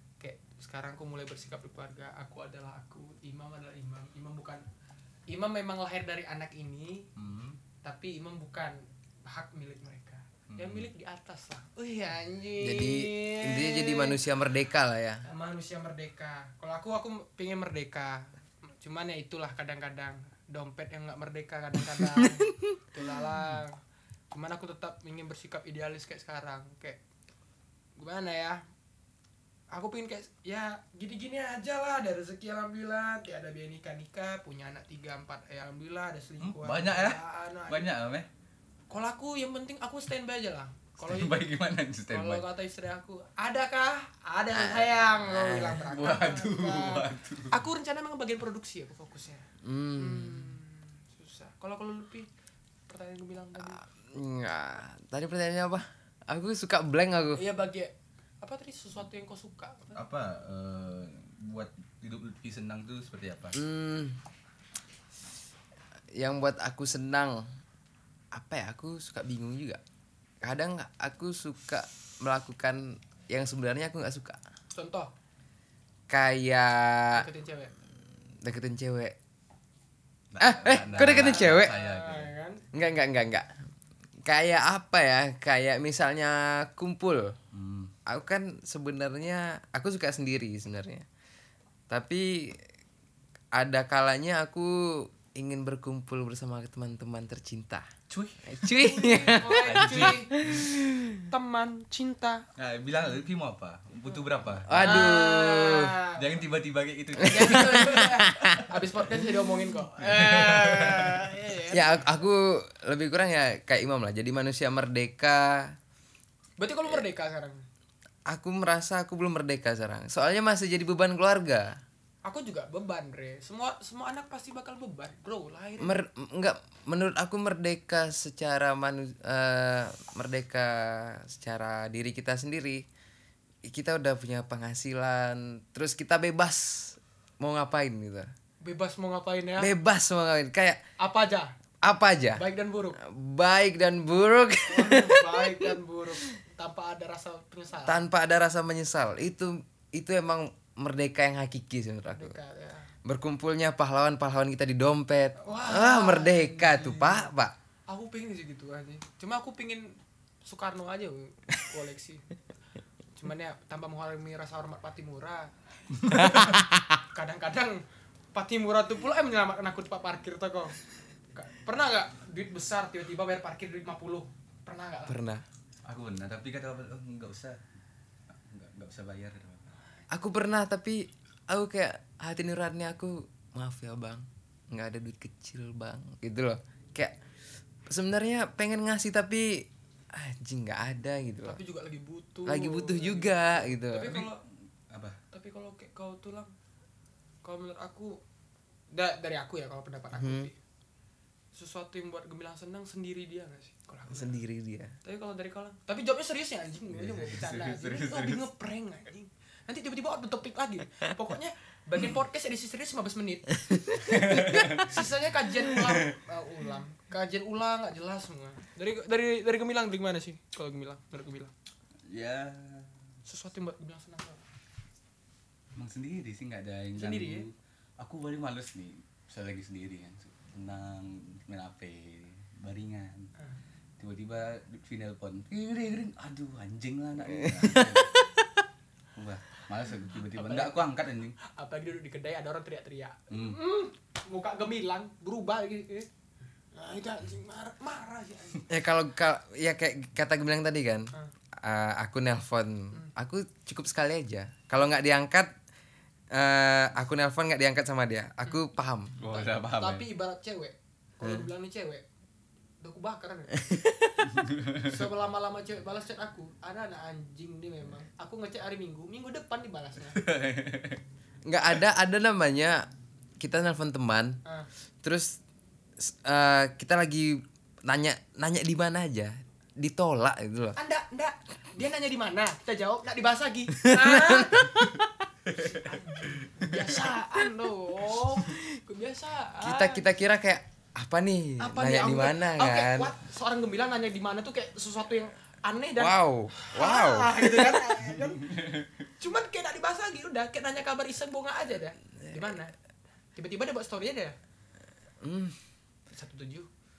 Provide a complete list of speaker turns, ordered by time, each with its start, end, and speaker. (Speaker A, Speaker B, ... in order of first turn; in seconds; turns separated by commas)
Speaker A: 0.2-4.6, Speaker A: 5.3-7.1, Speaker B: 7.2-7.6, Speaker A: 7.8-14.2, Speaker B: 10.5-10.9, Speaker C: 12.6-15.2, Speaker A: 15.2-23.8, Speaker A: 24.3-27.0, Speaker A: 28.0-28.6, Speaker A: 29.7-37.9, Speaker B: 36.4-38.3, Speaker A: 38.9-41.4, Speaker B: 41.0-42.5, Speaker A: 42.1-52.3, Speaker C: 44.5-45.9, Speaker B: 45.9-47.6, Speaker C: 49.6-50.5, Speaker A: 52.9-53.8, Speaker C: 54.0-57.4, Speaker A: 57.4-60.0, Speaker B: 59.9-63.6, Speaker C: 63.5-64.2, Speaker C: 66.1-67.5, Speaker C: 68.3-69.8, Speaker C: 70.4-74.4, Speaker A: 74.7-75.1, Speaker C: 76.1-77.3, Speaker A: 77.1-77.7, Speaker C: 78.4-79.2, Speaker B: 80.3-82.3, Speaker C: 80.4-81.7, Speaker A: 80.9-82.6, Speaker C: 82.7-83.5, Speaker C: 84.2-87.3, Speaker B: 87.5-87.9, Speaker C: 88.0-91.0, Speaker C: 91.9-92.6, Speaker C: 93.5-97.9, Speaker B: 98.1-100.7, Speaker C: 98.5-101.3, Speaker A: 98.8-100.4, Speaker A: 101.2-102.5, Speaker B: 102.6-104.9, Speaker A: 104.1-106.4, Speaker C: 104.7-106.0, Speaker B: 106.1-108.0, Speaker A: 107.2-112.0, Speaker C: 107.2-108.7, Speaker B: 110.0-111.2, Speaker C: 111.7-115.8, Speaker A: 116.6-117.6, Speaker C: 118.3-121.8, Speaker A: 122.2-126.0, Speaker C: 125.8-132.8, Speaker C: 133.6-138.3, Speaker A: 138.6-139.7, Speaker C: 139.6-140.8, Speaker A: 141.0-141.5, Speaker C: 141.8-142.4, Speaker A: 142.3-143.0, Speaker C: 143.0-145.7, Speaker A: 144.7-148.0, Speaker C: 147.8-152.3, Speaker A: 152.1-152.9, Speaker C: 153.0-157.5, Speaker A: 155.4-157.3, Speaker A: 157.9-162.2, Speaker A: 163.1-170.8, Speaker C: 166.1-166.8, Speaker A: 171.3-175.2, Speaker C: 175.1-175.4, Speaker B: 175.8-177.6, Speaker B: 178.3-179.7, Speaker C: 180.1-187.2, Speaker C: 187.9-191.6, Speaker A: 191.4-194.4, Speaker C: 192.4-194.2, Speaker B: 194.9-195.2, Speaker A: 195.3-196.5, Speaker A: 197.4-198.2, Speaker A: 198.9-200.6, Speaker C: 200.2-200.5, Speaker A: 201.5-204.4, Speaker C: 204.1-204.9, Speaker A: 205.0-221.5, Speaker B: 206.9-208.4, Speaker C: 214.0-214.7, Speaker B: 214.0-215.0, Speaker B: 222.1-222.9, Speaker A: 223.2-224.4, Speaker B: 225.7-233.3, Speaker A: 226.9-227.5, Speaker B: 234.0-238.2, Speaker C: 237.4-238.1, Speaker B: 239.2-241.3, Speaker A: 240.3-246.1, Speaker B: 243.3-243.6, Speaker A: 246.7-248.7, Speaker C: 248.7-255.5, Speaker C: 256.3-259.2, Speaker B: 259.2-260.1, Speaker A: 259.3-262.0, Speaker A: 262.8-263.6, Speaker C: 263.6-264.1, Speaker B: 264.3-265.0, Speaker A: 264.7-270.2, Speaker B: 270.1-271.0, Speaker C: 271.4-272.9, Speaker C: 273.4-274.4, Speaker C: 275.0-275.4, Speaker C: 276.0-280.8, Speaker A: 280.8-284.8, Speaker C: 283.8-285.1, Speaker A: 285.5-290.1, Speaker C: 289.6-293.1, Speaker A: 291.6-302.7, Speaker C: 296.0-297.8, Speaker A: 303.4-304.3, Speaker C: 305.2-305.6, Speaker A: 306.1-306.7